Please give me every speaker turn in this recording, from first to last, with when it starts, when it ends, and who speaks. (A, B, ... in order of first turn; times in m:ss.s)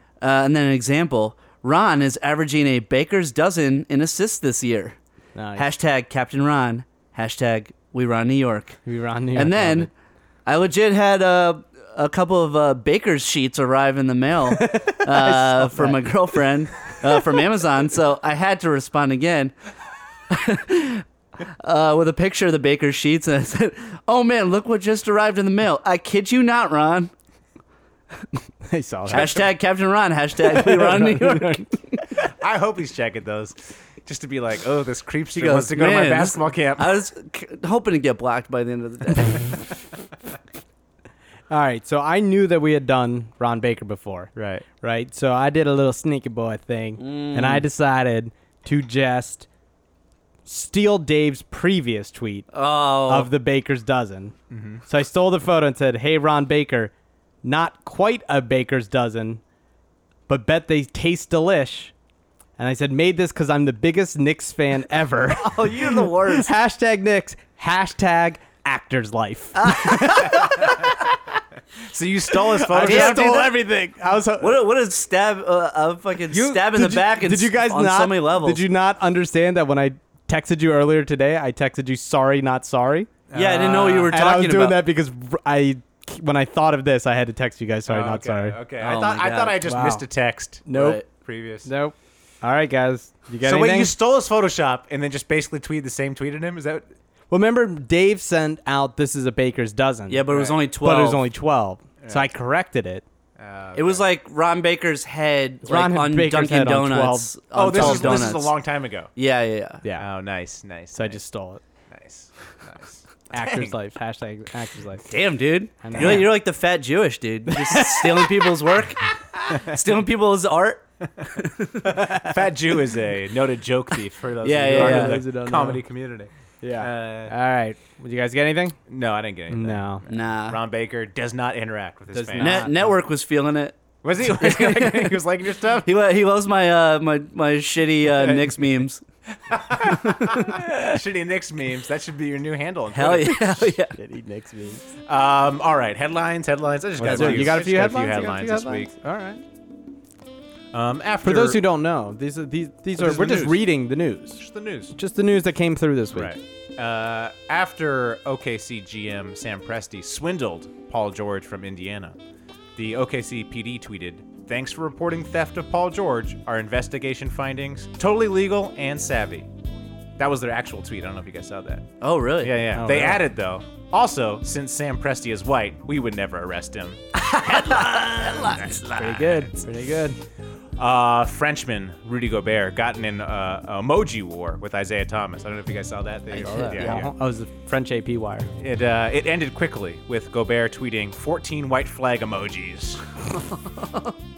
0:00.2-0:05.0 A
0:05.4-0:05.7 B
0:05.6-0:08.8 A
0:08.9-0:09.9 B
0:09.3-0:09.9 A
0:10.5-0:19.5 A
0:14.5-0:16.1 B
0:20.3-0:21.0 A
0:21.6-0:27.1 A
0:28.7-0:29.4 B
0:29.1-0:29.5 C
0:29.1-0:31.7 A
0:30.4-0:32.2 B
0:32.2-0:37.0 C
0:35.4-0:39.7 A
0:41.5-0:49.5 B
0:44.4-0:44.7 C
0:47.0-0:47.6 A
0:50.5-0:52.5 B
0:52.5-0:53.3 A
0:53.1-0:54.4 B
0:54.5-0:54.8 C
0:54.9-0:56.9 B
0:57.4-0:59.4 B
1:00.3-1:01.9 B
1:02.6-1:11.2 B
1:05.3-1:06.5 A
1:09.6-1:10.4 A
1:11.8-1:13.5 C
1:12.7-1:14.6 B
1:12.8-1:13.5 A
1:14.4-1:18.6 A
1:16.3-1:16.8 C
1:16.7-1:23.1 B
1:23.3-1:24.2 C
1:23.3-1:24.8 A
1:24.1-1:28.6 B
1:27.9-1:30.7 C
1:28.8-1:29.6 A
1:29.6-1:30.1 B
1:30.7-1:31.0 B
1:30.7-1:31.1 A
1:31.2-1:31.7 C
1:31.6-1:33.9 B
1:33.4-1:36.9 C
1:37.3-1:43.0 B
1:40.1-1:41.2 A
1:40.3-1:40.6 C
1:42.0-1:42.3 C
1:43.4-1:44.1 C
1:43.8-1:48.5 A
1:45.6-1:48.3 B
1:47.5-1:49.1 C
1:49.2-1:49.8 A
1:49.8-1:50.1 B
1:50.0-1:51.2 C
1:50.9-1:51.6 B
1:51.9-1:53.8 C
1:53.3-1:55.1 B
1:55.1-2:01.9 A
1:55.8-1:56.3 B
1:56.0-1:56.2 C
1:57.5-1:58.5 B
2:01.8-2:07.3 C
2:04.4-2:05.2 A
2:04.7-2:05.8 B
2:06.6-2:08.8 B
2:08.9-2:12.9 C
2:09.5-2:10.0 B
2:10.1-2:10.6 A
2:12.1-2:12.7 B
2:12.4-2:15.2 A
2:14.0-2:15.9 C
2:15.8-2:19.0 A
2:18.2-2:18.6 C
2:19.4-2:23.8 C
2:19.9-2:20.6 A
2:22.9-2:24.0 A
2:24.0-2:24.8 B
2:25.1-2:28.9 C
2:27.0-2:29.4 B
2:27.1-2:27.5 A
2:30.7-2:31.6 C
2:31.2-2:34.4 B
2:33.0-2:33.7 C
2:34.4-2:35.0 C
2:34.9-2:36.4 B
2:36.1-2:42.2 C
2:42.8-2:49.5 C
2:50.2-2:51.9 C
2:52.0-2:52.7 A
2:52.4-2:59.6 C
2:52.7-2:53.2 B
2:57.3-2:59.2 A
2:58.9-3:00.2 B
3:00.8-3:07.1 C
3:06.3-3:08.5 B
3:06.4-3:07.1 A
3:08.6-3:13.0 C
3:13.4-3:14.2 A